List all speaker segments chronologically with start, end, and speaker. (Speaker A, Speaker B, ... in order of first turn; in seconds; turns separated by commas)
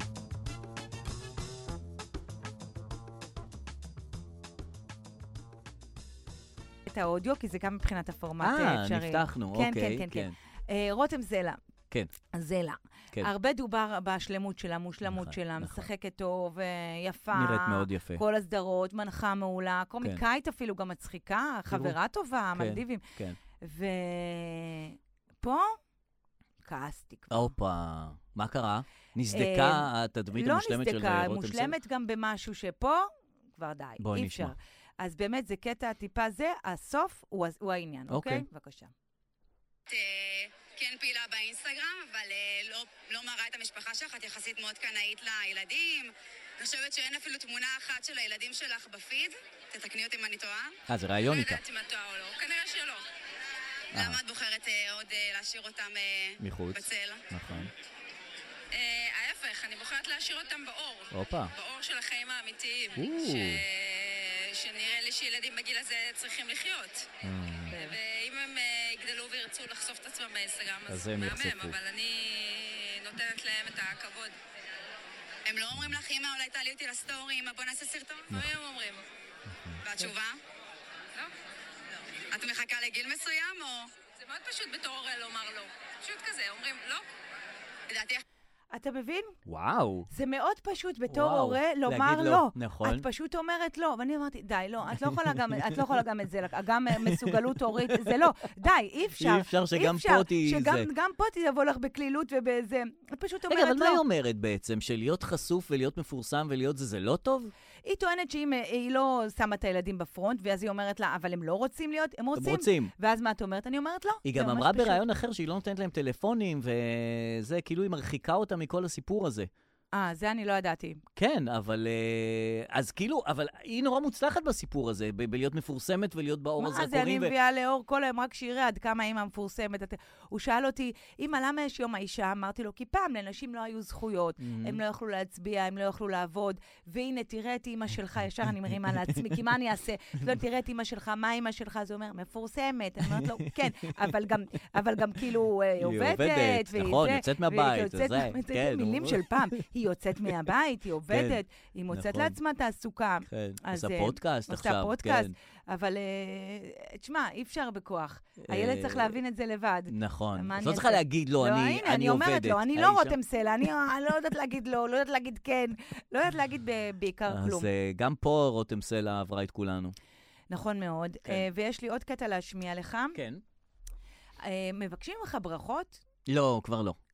Speaker A: 6.9-11.6, Speaker B: 8.4-10.3, Speaker A: 12.3-23.0, Speaker B: 15.1-15.9, Speaker B: 17.3-18.2, Speaker B: 21.7-21.9, Speaker B: 22.5-23.4, Speaker A: 23.6-25.8, Speaker A: 26.6-27.5, Speaker B: 27.3-31.7, Speaker A: 29.3-38.9, Speaker B: 34.0-34.5, Speaker B: 38.1-38.5, Speaker C: 39.9-53.0, Speaker B: 50.9-51.6, Speaker C: 53.9-57.2, Speaker B: 53.9-54.2, Speaker B: 56.4-57.7, Speaker C: 58.7-67.1, Speaker B: 61.1-61.5, Speaker B: 63.0-63.6, Speaker B: 67.2-67.8, Speaker C: 67.8-74.3, Speaker B: 70.9-71.8, Speaker C: 75.5-79.1, Speaker B: 75.7-76.0, Speaker B: 78.3-78.5, Speaker B: 79.5-79.8, Speaker C: 79.8-80.4, Speaker C: 82.3-87.0, Speaker C: 87.9-88.2, Speaker A: 88.7-89.3, Speaker B: 89.5-90.1, Speaker A: 90.1-104.0, Speaker B: 91.1-93.0, Speaker B: 95.0-96.0, Speaker B: 97.0-97.3, Speaker B: 99.2-100.9, Speaker B: 103.5-107.5, Speaker A: 107.8-115.0, Speaker B: 112.4-112.9, Speaker B: 114.2-119.5, Speaker A: 119.9-121.0, Speaker B: 121.2-127.3, Speaker A: 126.6-167.7, Speaker B: 134.4-134.8, Speaker B: 143.1-144.1, Speaker B: 145.8-149.5, Speaker B: 151.1-151.4, Speaker B: 151.9-152.3, Speaker B: 153.3-155.3, Speaker B: 158.4-159.2, Speaker B: 159.9-163.2, Speaker B: 167.3-169.9, Speaker A: 170.5-173.2, Speaker B: 173.1-173.4, Speaker A: 174.4-176.0, Speaker B: 176.3-177.0